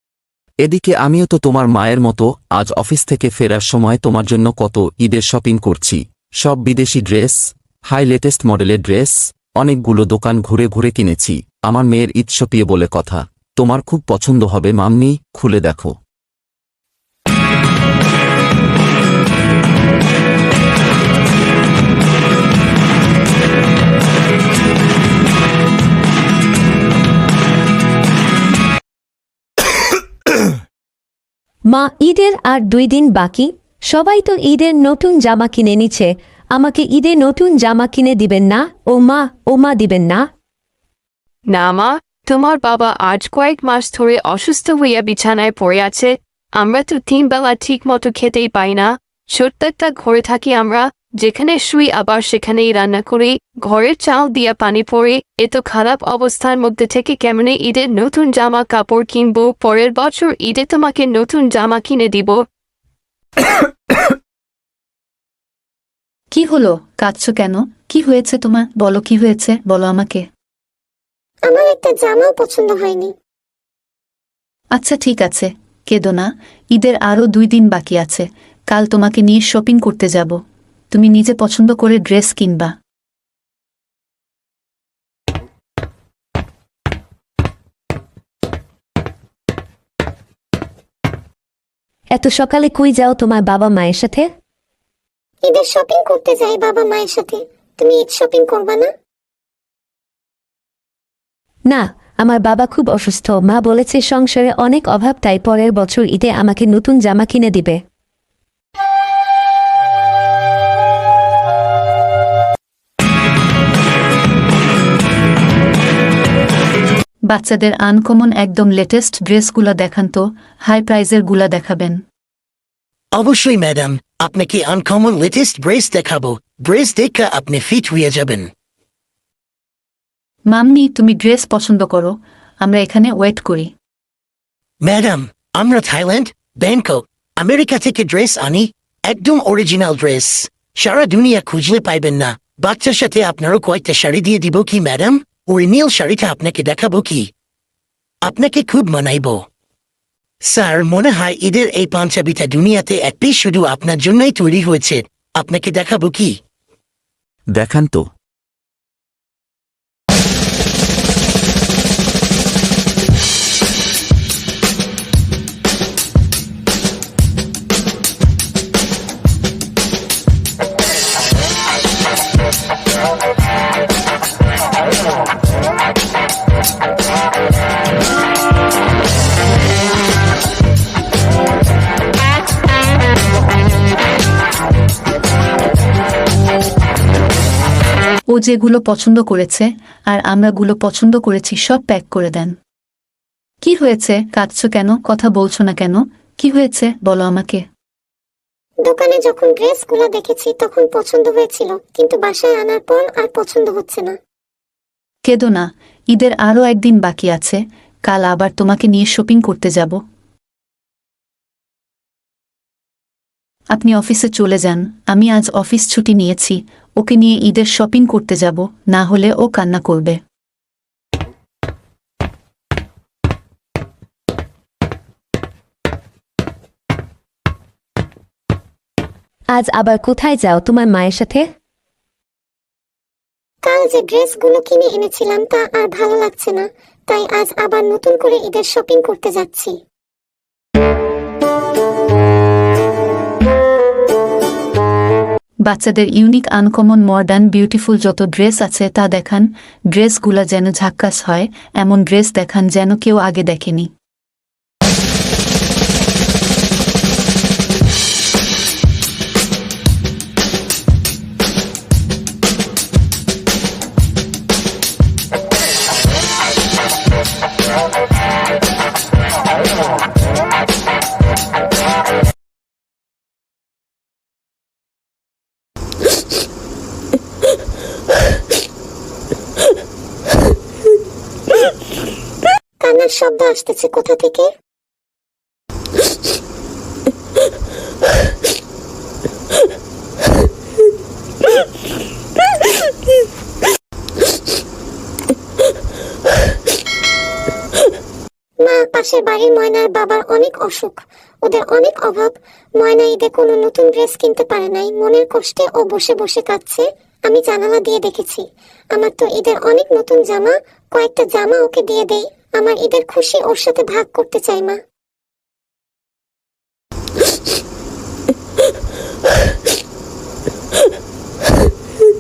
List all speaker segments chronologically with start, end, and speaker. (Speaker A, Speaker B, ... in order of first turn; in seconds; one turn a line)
Speaker A: 0.6-16.0
Speaker B: 31.7-40.3
Speaker C: 41.5-62.4
Speaker D: 66.3-70.3
Speaker E: 71.5-73.1
Speaker D: 74.7-82.8
Speaker B: 92.1-94.3
Speaker E: 95.4-98.9
Speaker B: 101.7-107.8
Speaker D: 117.2-122.0
Speaker F: 123.1-128.5
Speaker D: 130.5-133.7
Speaker F: 134.8-147.3
Speaker F: 148.2-149.5
Speaker F: 150.4-156.4
Speaker A: 157.5-158.1
Speaker D: 188.3-192.6
Speaker D: 193.6-197.7
Speaker E: 198.8-204.2
Speaker D: 205.2-210.0
Speaker D: 213.7-220.2
Speaker B: 229.5-231.5
Speaker E: 233.6-239.8
Speaker D: 245.7-253.9
Speaker E: 282.8-284.5
Speaker E: 298.6-314.8